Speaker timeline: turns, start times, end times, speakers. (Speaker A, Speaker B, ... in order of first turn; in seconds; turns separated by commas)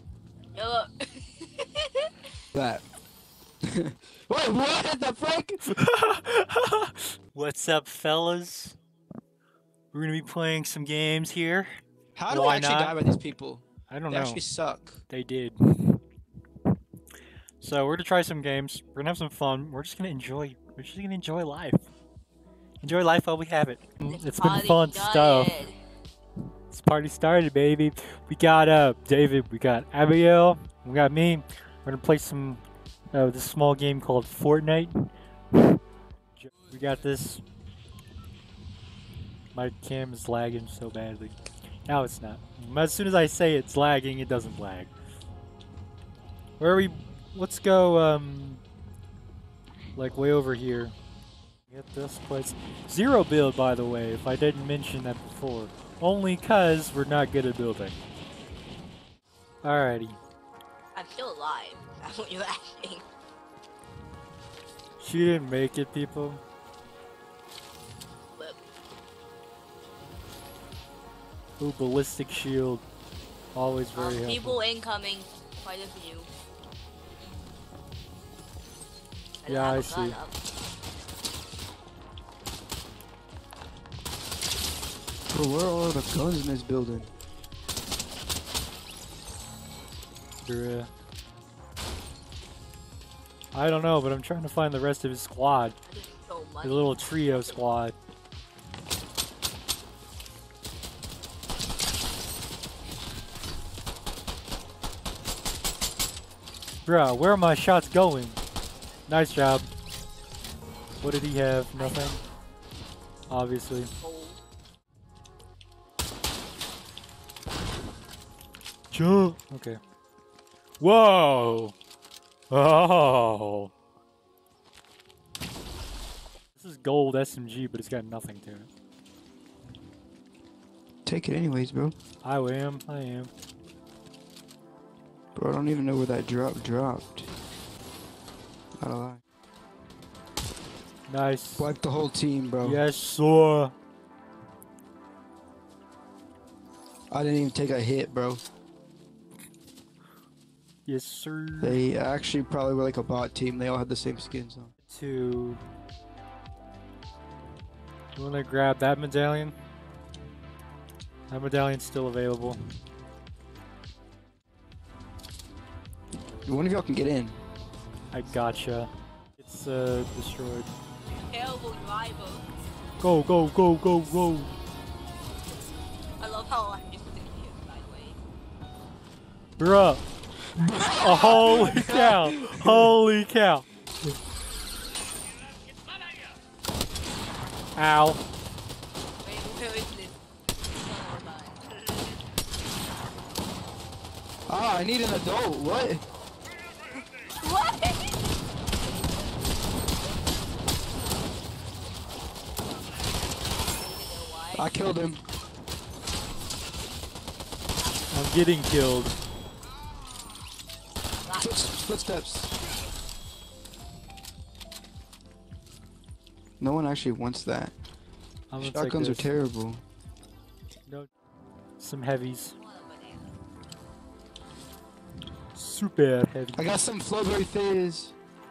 Speaker A: 0.5-2.1, Speaker B: 2.5-2.8, Speaker B: 3.6-5.6, Speaker C: 5.7-8.8, Speaker C: 9.9-13.0, Speaker B: 12.2-15.0, Speaker C: 13.9-14.4, Speaker C: 15.1-16.0, Speaker C: 17.6-21.8, Speaker C: 22.8-25.5, Speaker A: 24.0-25.8, Speaker C: 26.7-32.6, Speaker C: 33.1-35.8, Speaker C: 36.4-37.4, Speaker C: 39.5-44.9, Speaker C: 46.6-48.6, Speaker C: 50.0-51.0, Speaker C: 51.7-58.0, Speaker C: 59.6-60.2, Speaker A: 61.0-63.0, Speaker C: 65.0-66.4, Speaker C: 71.6-72.8, Speaker C: 73.5-74.6, Speaker A: 74.0-76.3, Speaker A: 79.4-80.3, Speaker C: 79.5-80.2, Speaker B: 85.3-87.1, Speaker C: 90.5-90.9, Speaker C: 93.5-95.8, Speaker A: 95.9-97.7, Speaker C: 96.6-98.0, Speaker C: 106.8-108.4, Speaker C: 109.1-109.7, Speaker C: 111.0-112.2, Speaker A: 111.8-112.2, Speaker C: 113.3-113.9, Speaker A: 114.0-114.4, Speaker C: 118.9-119.8, Speaker C: 120.8-121.8, Speaker C: 122.5-123.7, Speaker C: 126.6-128.7, Speaker B: 131.1-132.0, Speaker C: 132.2-133.3, Speaker B: 135.3-137.3, Speaker B: 138.8-139.2, Speaker C: 141.1-141.7, Speaker B: 141.6-142.8, Speaker C: 142.6-143.7, Speaker B: 147.1-148.4, Speaker C: 150.9-151.8, Speaker B: 151.6-154.7, Speaker C: 154.9-155.6, Speaker C: 158.2-159.6, Speaker C: 161.3-162.6, Speaker B: 166.5-167.4, Speaker C: 168.1-170.7, Speaker A: 171.2-172.5, Speaker C: 173.0-174.5, Speaker A: 176.2-178.2, Speaker C: 179.6-180.0, Speaker B: 180.6-182.9, Speaker A: 180.7-181.7, Speaker C: 180.7-183.7, Speaker C: 187.8-188.2, Speaker A: 189.2-190.2, Speaker A: 190.8-191.9, Speaker B: 194.5-196.0, Speaker A: 197.4-198.2, Speaker A: 203.8-204.7, Speaker B: 204.6-205.2, Speaker C: 208.1-209.2, Speaker A: 211.2-211.5, Speaker B: 211.4-212.6, Speaker B: 216.6-217.7, Speaker C: 218.5-219.3, Speaker B: 218.6-219.8, Speaker C: 221.8-222.6, Speaker A: 222.5-223.3, Speaker C: 225.6-226.8, Speaker B: 226.6-228.2